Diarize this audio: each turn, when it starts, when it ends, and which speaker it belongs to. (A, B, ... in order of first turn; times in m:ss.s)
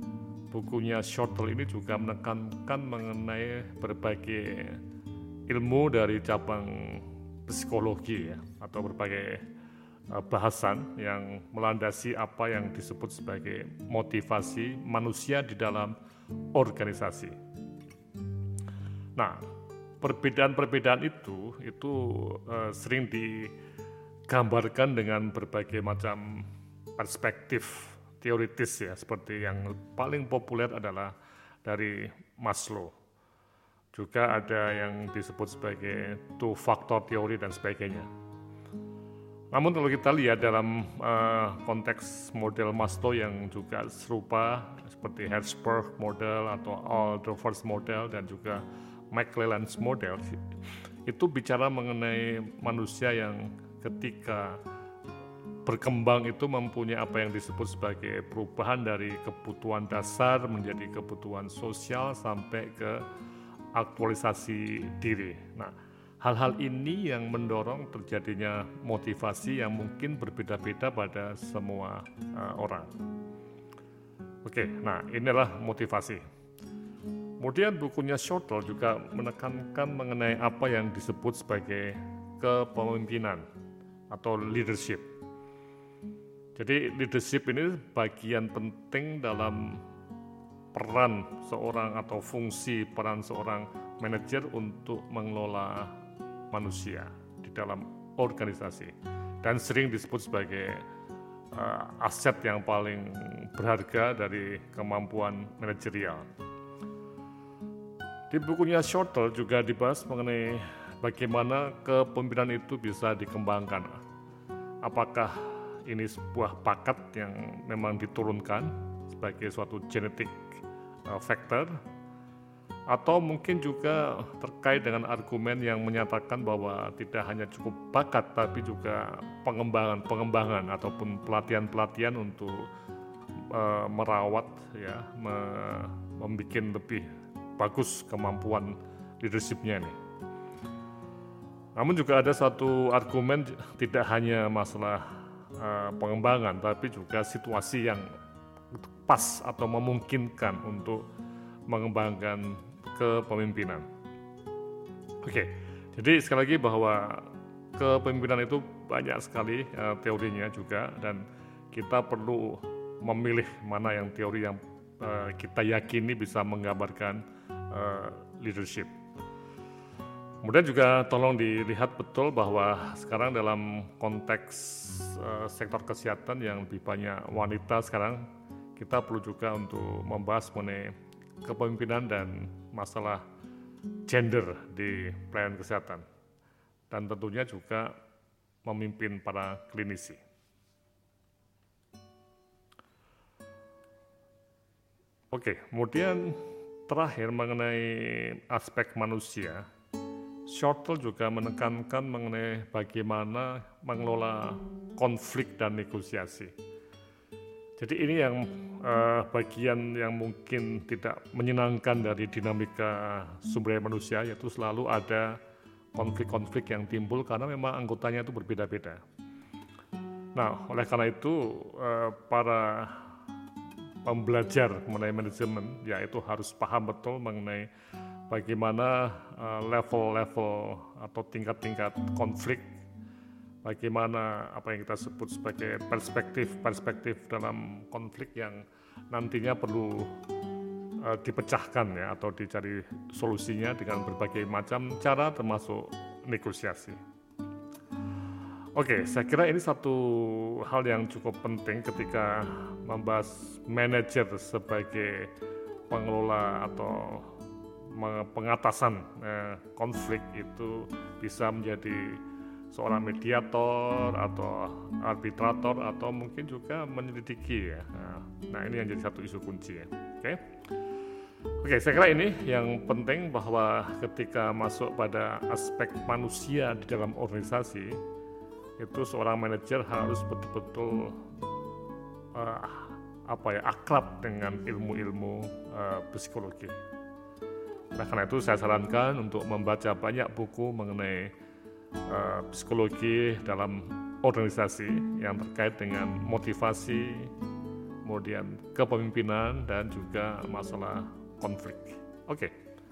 0:00.5-0:04.8 A
0:05.5-0:09.4 A
0:10.1-0:15.9 A
0:16.5-0:17.4 A
0:19.2-0:19.4 A
0:20.0-0:23.6 A
0:24.3-0:32.9 A
0:33.9-0:38.1 A
0:39.5-0:50.4 A
0:51.0-0:54.6 A
0:55.6-1:03.0 A
1:03.7-1:12.9 A
1:14.4-1:16.2 A
1:17.4-1:23.4 A
1:24.1-1:25.0 A
1:26.5-1:29.8 A
1:30.7-1:36.0 A
1:36.5-1:40.8 A
1:41.5-1:46.2 A
1:48.3-1:54.0 A
1:54.8-2:00.4 A
2:01.1-2:01.8 A
2:02.9-2:12.7 A
2:13.5-2:20.0 A
2:21.8-2:28.1 A
2:28.7-2:31.0 A
2:31.7-2:33.9 A
2:35.2-2:48.9 A
2:50.4-3:03.2 A
3:04.0-3:06.0 A
3:06.9-3:07.9 A
3:08.6-3:10.2 A
3:15.3-3:19.7 A
3:20.5-3:26.5 A
3:27.8-3:35.4 A
3:35.9-3:39.0 A
3:40.3-3:43.1 A
3:44.0-3:47.7 A
3:48.3-3:52.7 A
3:53.6-4:00.1 A
4:01.0-4:07.0 A
4:08.7-4:15.3 A
4:15.9-4:17.4 A
4:17.9-4:30.4 A
4:31.6-4:38.0 A
4:38.8-4:41.2 A
4:42.3-4:46.8 A
4:47.9-4:51.3 A
4:52.1-4:57.3 A
4:58.0-5:02.6 A